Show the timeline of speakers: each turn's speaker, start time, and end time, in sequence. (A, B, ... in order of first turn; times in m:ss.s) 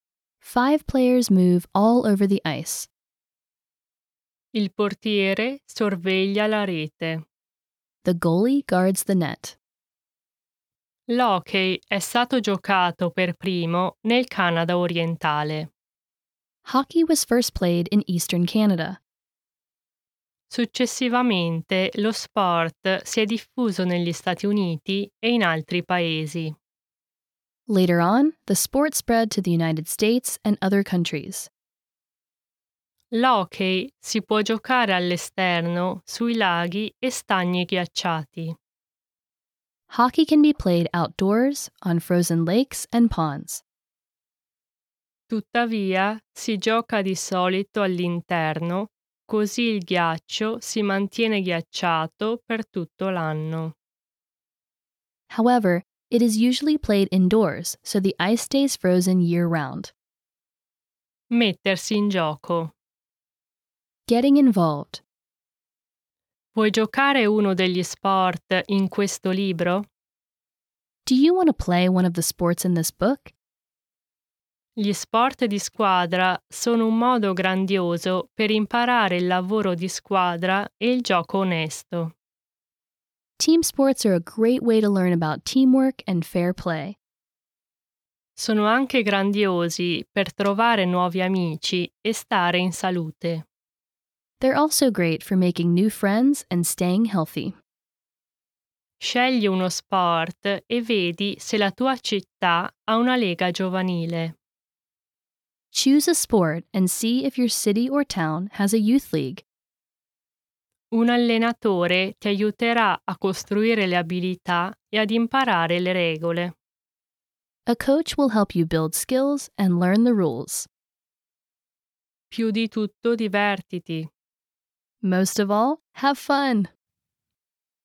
0:00.4-0:02.9 A
0:04.5-0:07.2 B
0:08.0-0:09.6 A
0:11.1-0:15.7 B
0:16.6-0:19.0 A
0:20.5-0:26.5 B
0:27.7-0:31.5 A
0:33.1-0:38.6 B
0:39.9-0:43.6 A
0:45.3-0:53.7 B
0:55.3-0:59.9 A
1:01.3-1:02.7 B
1:04.1-1:05.0 A
1:06.5-1:09.8 B
1:11.0-1:13.3 A
1:14.8-1:22.1 B
1:23.4-1:27.0 A
1:28.4-1:33.4 B
1:34.4-1:37.6 A
1:39.0-1:44.3 B
1:45.7-1:49.4 A
1:50.9-1:56.5 B
1:57.6-2:00.7 A
2:02.3-2:04.1 B
2:05.0-2:06.7 A